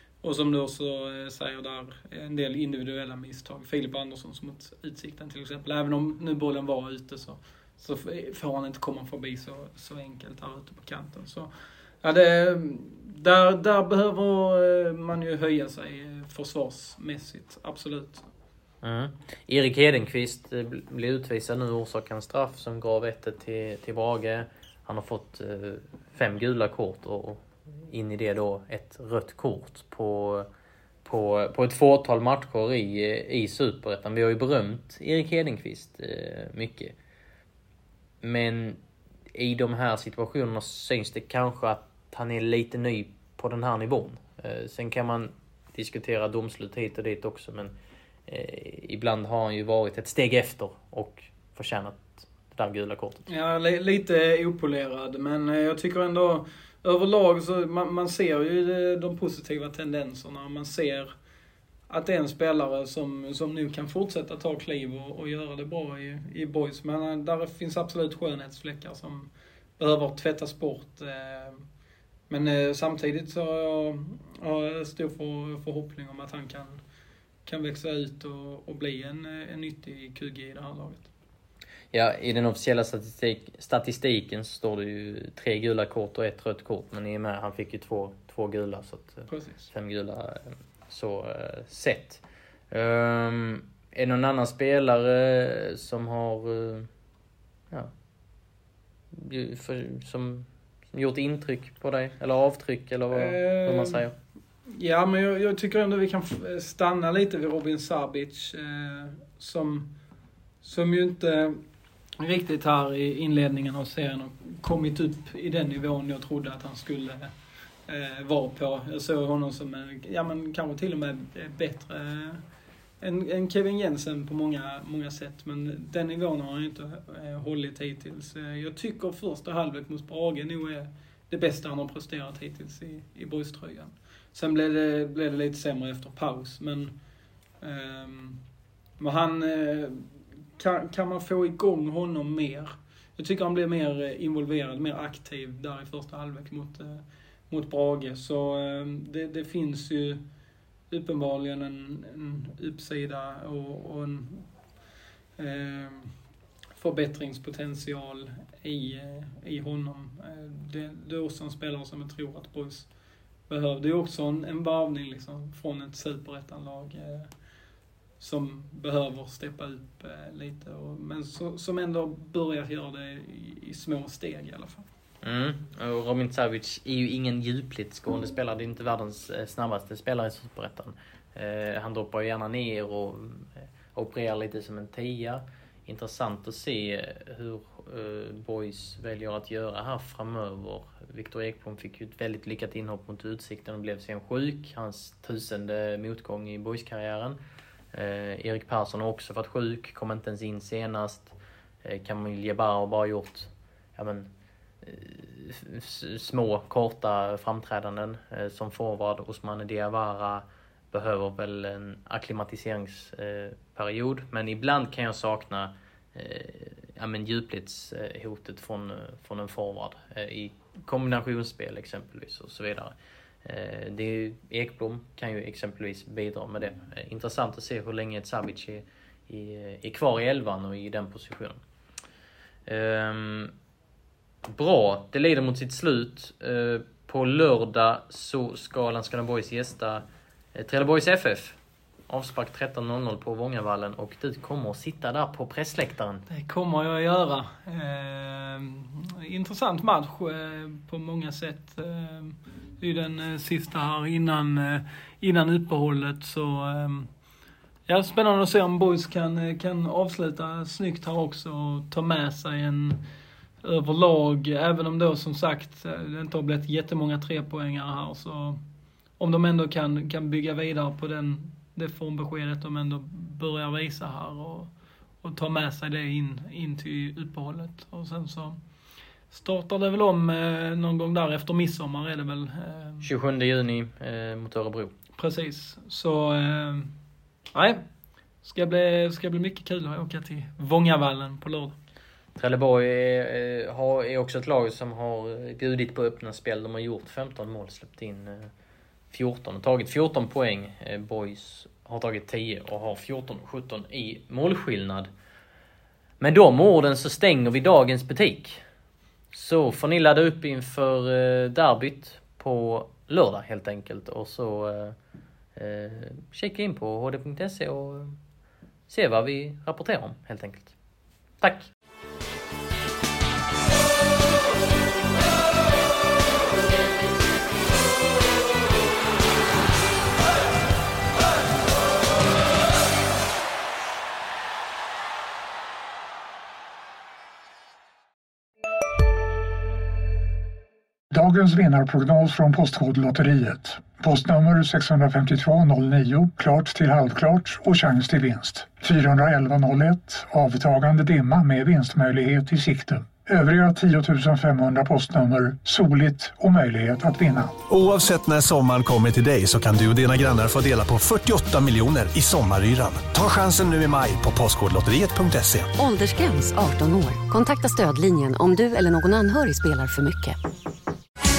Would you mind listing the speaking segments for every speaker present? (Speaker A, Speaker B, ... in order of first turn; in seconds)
Speaker A: 0.2-11.5, 12.0-18.3, 53.3-61.1, 61.9-71.7, 72.3-76.8, 77.5-81.1, 89.3-89.7, 103.1-104.0, 104.7-109.9, 110.6-111.6, 112.2-117.3, 117.9-122.4, 123.0-136.9, 137.6-138.4, 139.0-140.1, 140.6-150.2, 150.9-154.5, 155.4-156.1, 156.8-162.9, 163.5-167.3, 168.2-174.9, 246.3-257.1, 257.9-263.0, 263.6-268.6, 269.2-274.7, 275.2-278.6, 279.3-283.1, 285.2-286.9, 287.5-287.8, 288.4-291.8
Speaker B: 18.8-30.5, 31.1-37.0, 38.2-38.8, 39.3-47.7, 48.3-53.3, 81.9-96.9, 99.1-104.1, 175.2-197.4, 197.9-231.6, 232.7-233.6, 234.5-241.6, 242.1-246.2, 283.0-284.9, 292.4-298.5, 299.1-305.1, 306.2-308.6, 309.3-315.0, 315.6-318.2, 318.9-320.7, 321.4-321.7
Speaker C: 341.1-357.6
Speaker D: 357.7-365.7
Speaker E: 365.8-370.4